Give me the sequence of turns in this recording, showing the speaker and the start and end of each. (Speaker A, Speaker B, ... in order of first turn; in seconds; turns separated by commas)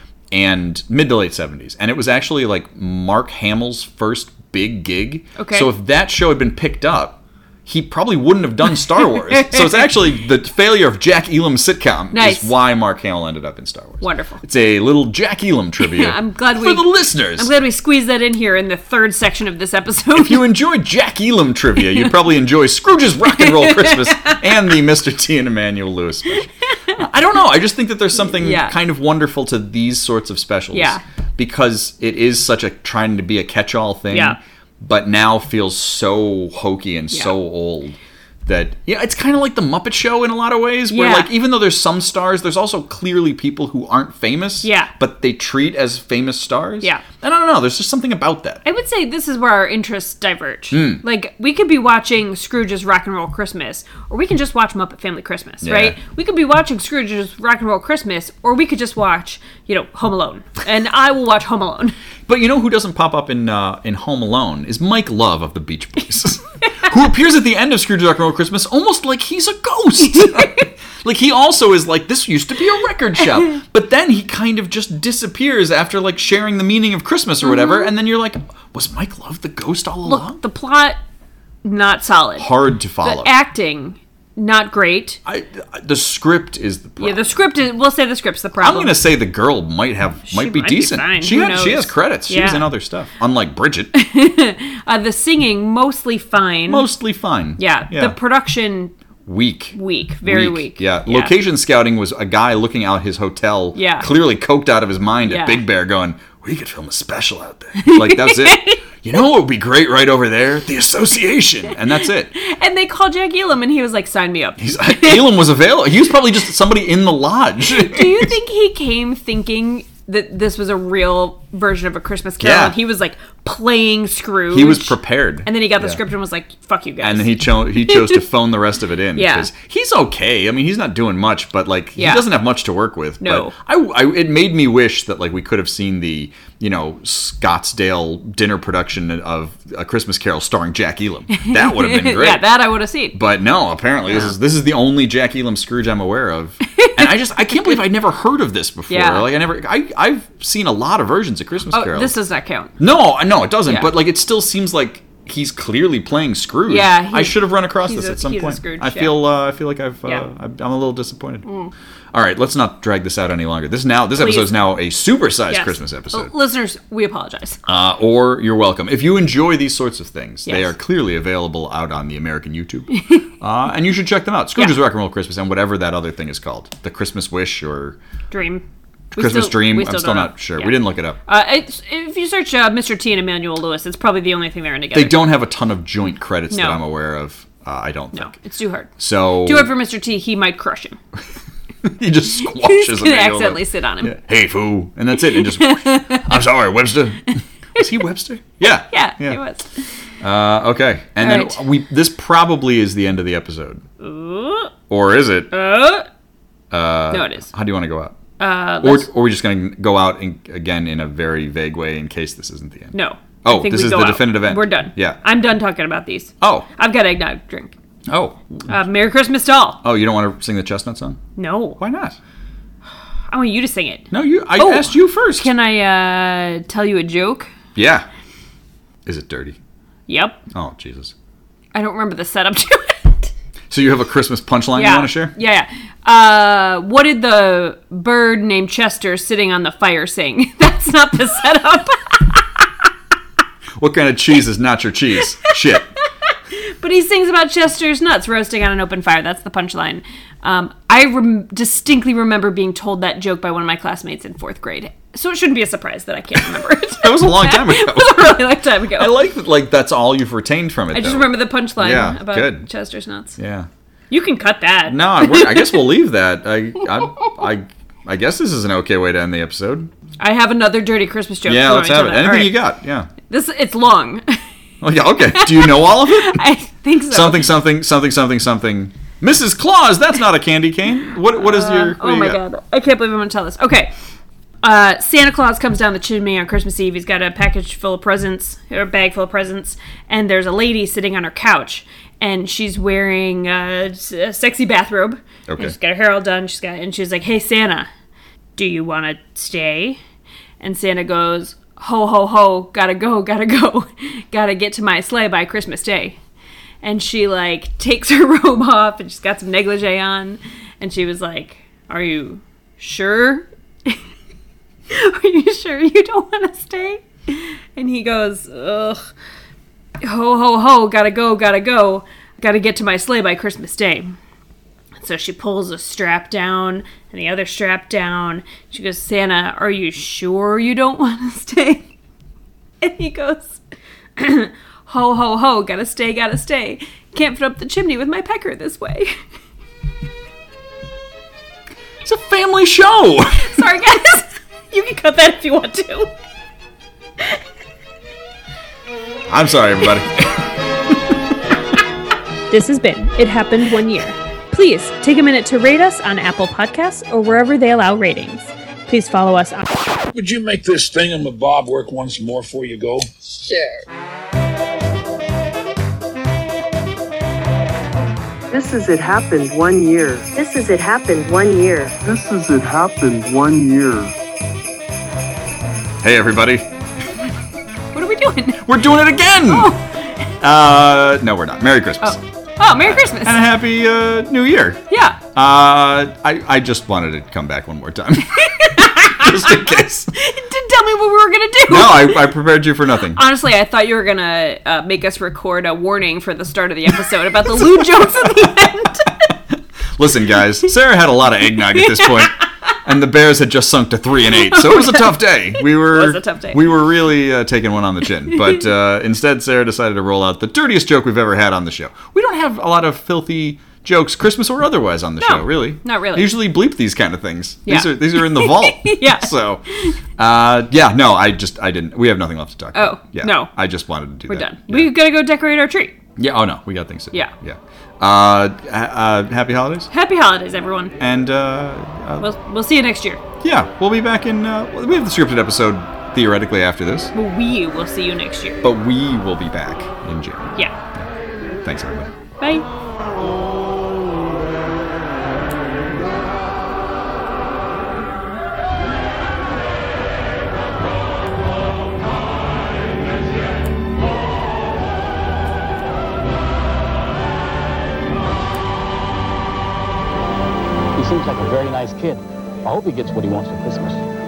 Speaker A: 0.3-17.5, Speaker B: 5.4-5.7, Speaker B: 12.1-12.5, Speaker B: 14.0-14.4, Speaker B: 15.8-20.4, Speaker A: 20.1-48.6, Speaker B: 23.3-24.5, Speaker B: 26.7-27.0, Speaker B: 28.1-28.8, Speaker B: 30.7-31.0, Speaker B: 34.1-34.4, Speaker B: 40.9-41.3, Speaker B: 44.6-44.9, Speaker B: 48.6-62.0, Speaker A: 50.7-51.0, Speaker A: 55.6-56.0, Speaker A: 62.3-80.4, Speaker B: 70.1-70.6, Speaker B: 77.4-77.9, Speaker B: 80.0-81.0, Speaker B: 81.6-82.5, Speaker A: 82.4-83.3, Speaker B: 83.0-85.2, Speaker A: 85.2-87.3, Speaker B: 87.0-89.0, Speaker A: 88.6-93.9, Speaker B: 90.3-92.7, Speaker B: 93.9-96.9, Speaker A: 96.7-98.2, Speaker B: 97.6-98.9, Speaker A: 99.3-112.3, Speaker B: 99.7-101.3, Speaker B: 103.8-104.1, Speaker B: 105.3-105.6, Speaker B: 107.8-108.8, Speaker B: 112.3-115.3, Speaker A: 114.6-118.3, Speaker B: 117.7-128.2, Speaker A: 122.4-122.8, Speaker A: 124.5-126.0, Speaker A: 127.0-142.5, Speaker B: 129.1-129.5, Speaker B: 132.0-132.3, Speaker B: 133.2-133.5, Speaker B: 141.3-143.2, Speaker A: 143.1-152.2, Speaker B: 146.7-147.8, Speaker B: 148.9-149.3, Speaker B: 151.7-152.8, Speaker A: 152.8-161.5, Speaker B: 153.7-153.9, Speaker B: 156.7-159.2, Speaker A: 162.1-166.3, Speaker B: 164.2-164.6, Speaker B: 165.5-167.6, Speaker A: 167.7-178.0, Speaker B: 170.5-170.7, Speaker B: 172.9-173.2, Speaker B: 178.3-185.3, Speaker A: 179.1-181.2, Speaker A: 184.9-188.4, Speaker B: 186.5-186.8, Speaker B: 188.1-191.0, Speaker A: 189.0-189.7, Speaker A: 191.8-199.4, Speaker B: 192.4-194.2, Speaker B: 195.3-196.4, Speaker B: 198.6-199.9, Speaker A: 200.2-203.8, Speaker B: 201.2-201.6, Speaker B: 204.0-204.7, Speaker A: 204.9-205.5, Speaker B: 205.5-206.1, Speaker A: 206.7-208.2, Speaker B: 207.1-207.5, Speaker B: 208.4-209.1, Speaker A: 208.8-215.2, Speaker B: 212.9-217.7, Speaker A: 216.4-216.7, Speaker A: 218.1-218.8, Speaker B: 218.7-219.8, Speaker A: 219.8-221.2, Speaker B: 221.4-221.8, Speaker A: 221.8-222.2, Speaker B: 223.3-227.5, Speaker A: 224.1-225.5, Speaker A: 227.8-228.1, Speaker A: 229.1-229.6, Speaker B: 230.1-230.4, Speaker A: 230.5-231.1, Speaker B: 231.7-233.3, Speaker A: 233.7-235.3, Speaker B: 234.7-242.6, Speaker A: 243.8-245.9, Speaker B: 245.4-245.8, Speaker B: 246.6-259.2, Speaker A: 257.0-262.7, Speaker B: 260.9-263.4, Speaker A: 263.4-263.7, Speaker B: 264.1-265.8, Speaker A: 264.9-269.9, Speaker B: 270.2-272.6, Speaker A: 271.4-273.1, Speaker B: 273.3-274.4, Speaker A: 274.8-276.4, Speaker B: 275.3-277.5, Speaker A: 277.1-282.4, Speaker B: 281.3-283.9, Speaker B: 284.6-297.9, Speaker A: 295.5-295.8, Speaker B: 298.6-300.0, Speaker B: 300.6-306.2, Speaker B: 306.8-314.0, Speaker B: 314.9-319.0, Speaker B: 320.0-324.1, Speaker B: 325.0-331.9, Speaker B: 332.8-333.6, Speaker B: 334.2-339.1, Speaker A: 342.0-343.6, Speaker B: 343.4-346.1, Speaker A: 349.3-351.2, Speaker B: 352.5-359.6, Speaker C: 360.1-363.1, Speaker D: 368.5-374.1, Speaker A: 376.0-376.7, Speaker B: 377.9-378.6, Speaker A: 378.6-379.7, Speaker B: 379.5-380.1, Speaker A: 380.4-382.2, Speaker B: 382.0-383.4, Speaker A: 382.8-390.1, Speaker B: 384.9-385.2, Speaker B: 388.4-392.3, Speaker A: 391.7-393.2, Speaker B: 393.1-399.2, Speaker A: 397.6-398.6, Speaker A: 400.0-419.6, Speaker B: 401.8-402.4, Speaker B: 404.2-406.6, Speaker B: 415.2-416.3, Speaker B: 417.6-420.0, Speaker A: 420.2-424.9, Speaker B: 422.8-423.5, Speaker B: 424.3-426.0, Speaker A: 426.2-429.9, Speaker B: 429.9-430.9, Speaker A: 431.0-432.3, Speaker B: 432.2-433.2, Speaker A: 433.4-437.1, Speaker B: 437.1-438.6, Speaker A: 438.6-440.6, Speaker A: 441.6-442.1, Speaker B: 442.4-442.6, Speaker E: 461.0-464.0